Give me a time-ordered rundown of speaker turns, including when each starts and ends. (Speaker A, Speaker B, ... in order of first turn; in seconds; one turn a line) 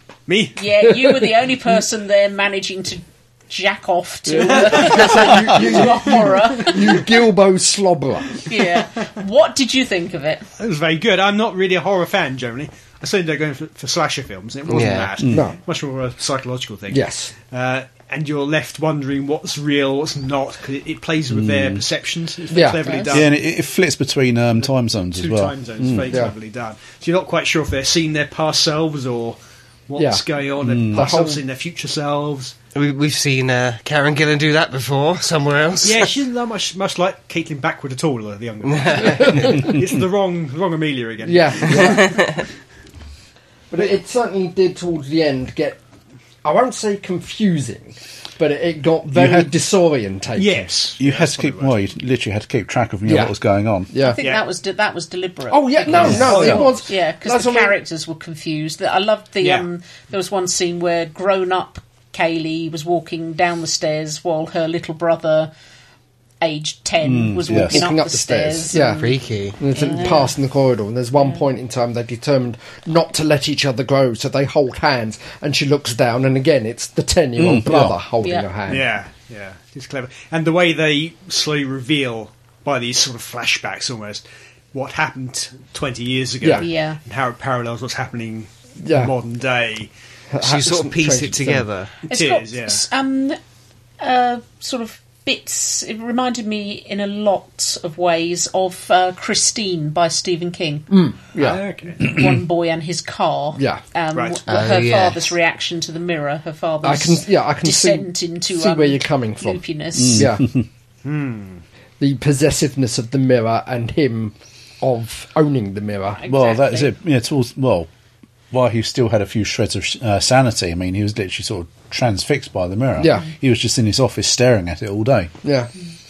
Speaker A: 0.3-0.6
Speaker B: 0.6-7.0
Speaker C: 0.9-1.2
Speaker C: 4.3-8.4
Speaker A: 4.6-5.1
Speaker B: 8.4-10.5
Speaker A: 10.6-23.4
Speaker D: 14.7-15.2
Speaker E: 15.2-15.5
Speaker C: 15.2-15.6
Speaker C: 16.9-17.3
Speaker E: 21.3-21.8
Speaker C: 22.5-22.9
Speaker B: 22.8-23.2
Speaker E: 23.1-26.2
Speaker A: 24.6-29.4
Speaker C: 26.1-26.3
Speaker A: 29.9-32.5
Speaker C: 30.0-30.2
Speaker E: 30.6-31.1
Speaker C: 30.9-31.4
Speaker D: 32.8-36.2
Speaker A: 35.8-42.0
Speaker D: 38.8-39.2
Speaker C: 39.0-39.7
Speaker C: 41.2-42.2
Speaker D: 41.8-42.3
Speaker C: 43.7-45.8
Speaker C: 46.4-50.7
Speaker E: 49.1-49.5
Speaker A: 50.4-51.8
Speaker E: 51.0-53.9
Speaker C: 53.1-53.4
Speaker C: 53.9-54.2
Speaker B: 54.0-65.5
Speaker C: 55.5-57.8
Speaker A: 55.9-56.8
Speaker E: 56.0-56.3
Speaker A: 59.4-59.7
Speaker B: 66.4-69.1
Speaker E: 67.0-67.9
Speaker C: 67.5-78.9
Speaker D: 68.8-69.6
Speaker B: 69.7-70.3
Speaker E: 77.4-78.0
Speaker B: 78.2-78.5
Speaker A: 78.7-89.9
Speaker B: 86.6-87.0
Speaker C: 88.8-89.1
Speaker C: 90.3-91.7
Speaker D: 90.4-91.9
Speaker A: 92.1-92.8
Speaker B: 92.1-93.4
Speaker B: 94.0-100.9
Speaker C: 100.9-101.6
Speaker A: 101.4-102.0
Speaker B: 102.0-110.3
Speaker C: 103.6-103.8
Speaker A: 104.1-104.4
Speaker D: 104.5-105.3
Speaker C: 106.8-109.6
Speaker E: 110.0-110.7
Speaker C: 110.1-110.5
Speaker A: 111.0-111.6
Speaker C: 112.0-116.2
Speaker B: 116.2-117.0
Speaker E: 116.3-117.9
Speaker E: 118.5-125.3
Speaker C: 123.0-123.3
Speaker C: 125.4-125.7